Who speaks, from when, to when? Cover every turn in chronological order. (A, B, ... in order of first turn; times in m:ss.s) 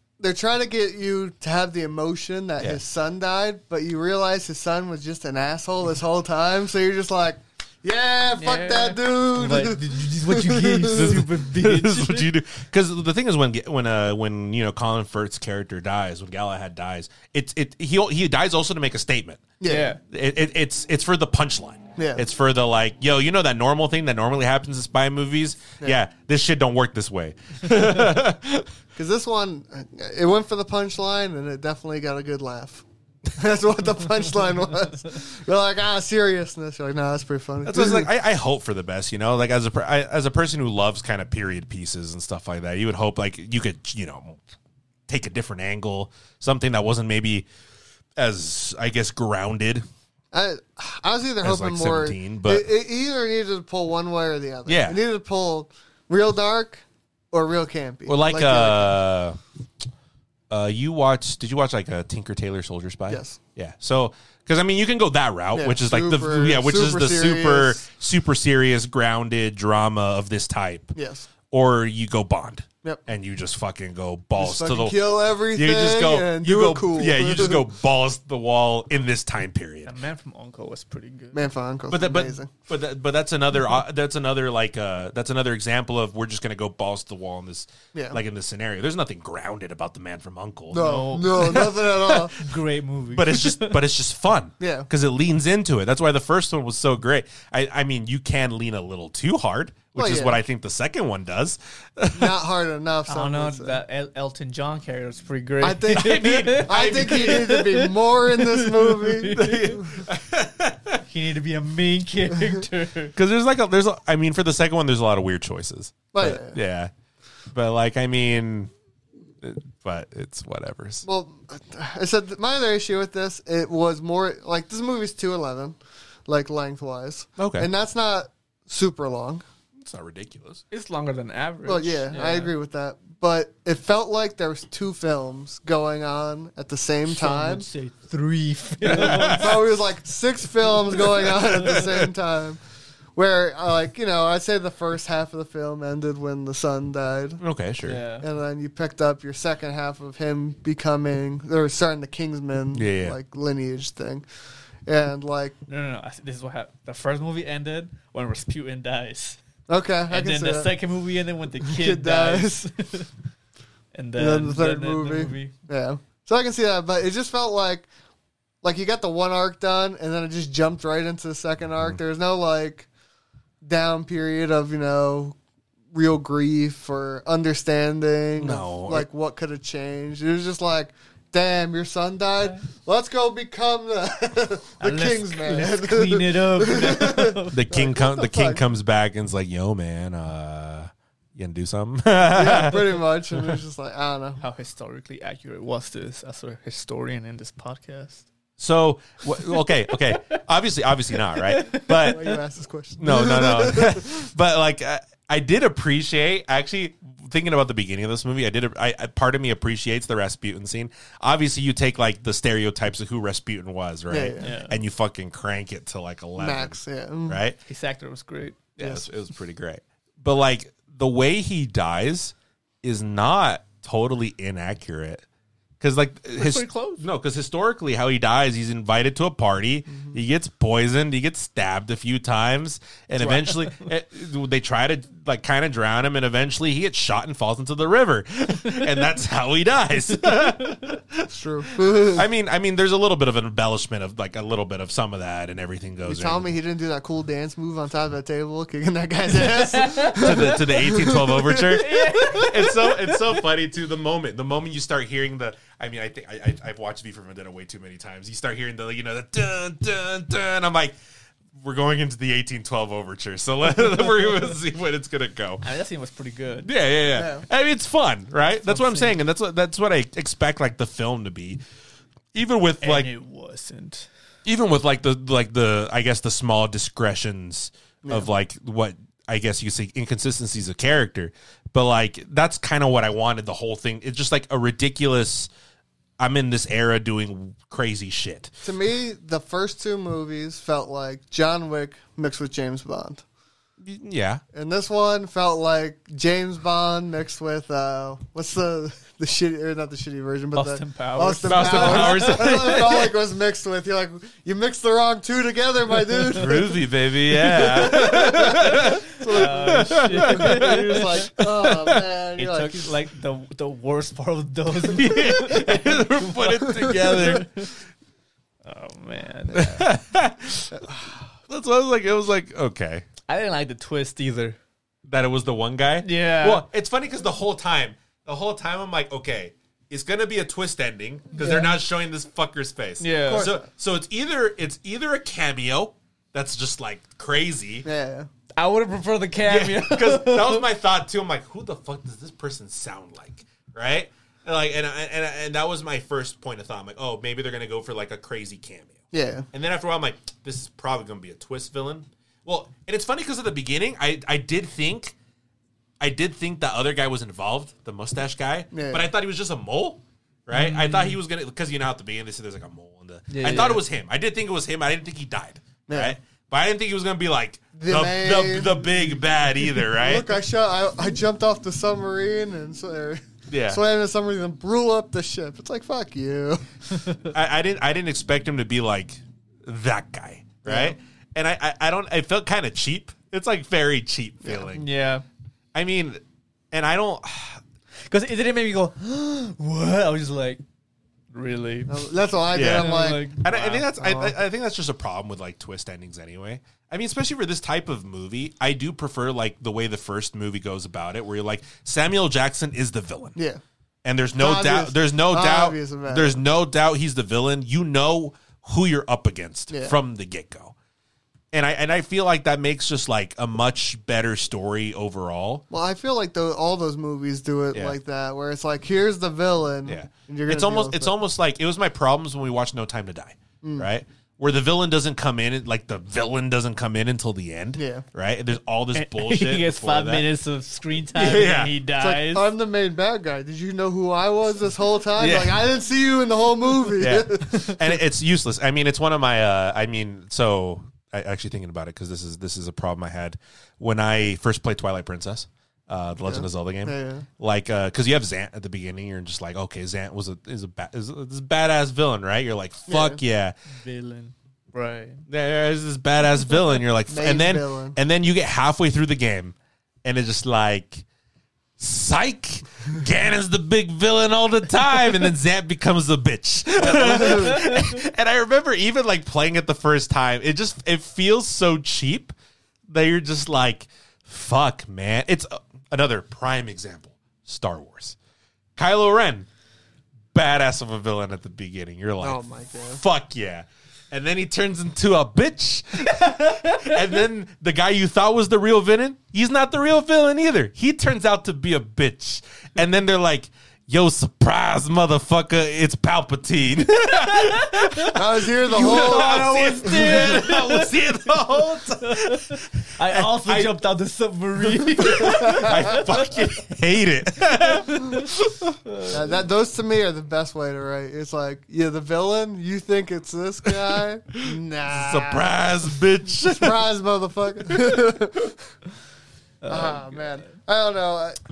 0:00.2-0:11.2 A
0:08.4-0:12.3 B
0:10.9-0:28.7 C
0:19.6-0:19.9 A
0:19.6-0:20.0 B
0:22.0-0:22.2 A
0:29.0-0:38.1 A
0:37.6-0:44.4 C
0:45.1-0:47.5 C
0:48.2-0:49.8 C
0:50.3-0:59.0 A
0:51.4-0:52.6 C
0:54.7-0:55.0 C
0:58.1-0:59.4 C
1:00.5-1:10.9 C
1:03.1-1:03.4 A
1:05.6-1:07.8 A
1:11.0-1:11.3 A
1:11.5-1:19.9 C
1:14.4-1:17.7 A
1:19.9-1:21.5 B
1:21.3-1:22.5 A
1:21.9-1:32.4 C
1:27.9-1:28.2 A
1:30.7-1:32.4 A
1:30.8-1:33.8 B
1:33.2-1:42.4 C
1:34.6-1:34.9 A
1:40.0-1:40.4 A
1:42.1-1:43.8 A
1:43.1-1:49.8 B
1:45.6-1:49.9 A
1:45.9-1:47.5 C
1:49.3-1:51.0 C
1:51.0-1:53.1 B
1:53.2-1:56.9 C
1:56.1-1:56.6 A
1:57.5-1:58.7 C
1:59.4-2:01.0 C
2:01.0-2:09.4 A
2:07.4-2:07.7 C
2:09.8-2:10.6 C
2:10.7-2:12.5 B
2:11.7-2:17.7 A
2:17.1-2:19.6 B
2:18.8-2:22.6 A
2:18.9-2:19.6 C
2:21.3-2:22.0 C
2:23.2-2:27.4 A
2:27.4-2:28.0 C
2:27.8-2:28.3 B
2:28.2-2:34.3 A
2:32.7-2:33.2 C
2:34.9-2:35.6 A
2:35.7-2:39.4 B
2:39.7-2:40.7 A
2:40.1-2:43.1 B
2:41.6-2:42.7 A
2:43.9-2:45.5 B
2:44.2-2:47.9 A
2:48.6-2:52.9 A
2:53.6-2:55.4 A
2:55.9-3:08.6 A
2:58.4-2:59.1 C
3:04.8-3:07.6 B
3:07.5-3:12.9 C
3:12.3-3:14.4 A
3:14.4-3:18.3 B
3:18.6-3:22.2 C
3:21.3-3:22.4 B
3:22.1-3:24.1 A
3:23.0-3:37.6 C
3:34.1-3:34.5 A
3:34.4-3:34.8 B
3:36.4-3:37.4 A
3:37.7-3:38.6 B
3:38.8-3:45.2 C
3:38.8-3:39.0 A
3:45.8-4:06.5 C
3:46.4-3:47.0 B
3:53.2-3:53.9 B
4:01.3-4:02.3 A
4:06.0-4:11.8 A
4:09.6-4:10.6 B
4:10.1-4:21.0 C
4:11.6-4:13.2 B
4:21.6-4:25.6 C
4:25.6-4:26.7 B
4:26.6-4:31.6 C
4:27.1-4:27.4 A
4:28.7-4:29.2 B
4:32.3-4:33.1 C
4:32.8-4:34.1 B
4:34.5-4:45.5 C
4:38.0-4:38.3 A
4:46.2-4:48.5 C
4:48.6-4:53.2 A
4:53.8-4:54.4 C
4:54.5-5:06.8 A
5:00.5-5:02.8 B
5:01.4-5:03.1 C
5:06.3-5:12.1 C
5:07.4-5:12.9 A
5:07.8-5:11.3 B
5:12.4-5:17.8 B
5:14.8-5:17.5 C
5:18.6-5:19.9 B
5:19.5-5:20.9 C
5:21.5-5:23.0 C
5:23.3-5:24.6 B
5:25.1-5:37.9 C
5:26.0-5:26.6 B
5:31.4-5:31.7 A
5:33.0-5:33.5 B
5:33.3-5:33.6 A
5:37.8-5:38.3 A
5:38.6-5:40.6 B
5:39.5-5:49.0 C
5:49.1-5:49.5 A
5:49.5-5:55.2 C
5:56.0-6:10.3 C
5:58.7-5:59.1 A
6:00.5-6:01.2 B
6:03.3-6:03.8 B
6:05.9-6:06.2 A
6:07.8-6:08.9 A
6:09.9-6:16.6 A
6:13.5-6:13.8 C
6:17.3-6:24.9 C
6:20.6-6:21.0 A
6:24.4-6:24.7 A
6:24.7-6:25.2 B
6:25.7-6:27.6 C
6:28.0-6:30.6 B
6:31.3-6:32.1 B
6:31.9-6:33.4 A
6:32.5-6:43.4 C
6:32.7-6:33.9 B
6:34.0-6:34.4 A
6:43.4-6:43.6 A
6:44.0-6:50.7 C
6:44.4-6:46.4 A
6:49.7-6:50.0 A
6:51.5-6:55.6 C
6:55.7-7:01.1 A
6:59.8-7:10.2 C
7:03.6-7:03.9 A
7:07.8-7:08.0 A
7:09.0-7:12.5 B
7:11.2-7:11.7 C
7:12.0-7:18.0 A
7:15.2-7:15.6 C
7:17.0-7:33.6 C
7:26.2-7:27.3 A
7:32.9-7:33.2 A
7:33.7-7:35.2 B
7:35.3-7:41.0 C
7:37.1-7:38.0 A
7:41.8-7:52.3 C
7:46.8-7:47.6 A
7:46.9-7:48.0 B
7:52.9-7:58.2 C
7:58.8-7:59.5 C
8:00.3-8:23.8 C
8:02.2-8:03.0 A
8:17.1-8:18.2 B
8:18.1-8:20.2 A
8:18.7-8:26.5 B
8:24.7-8:28.8 C
8:25.2-8:26.0 A
8:27.6-8:28.3 B
8:28.8-8:29.2 B
8:29.1-8:35.6 A
8:33.7-8:36.8 C
8:36.4-8:38.6 A
8:39.6-8:40.5 B
8:39.7-8:41.4 A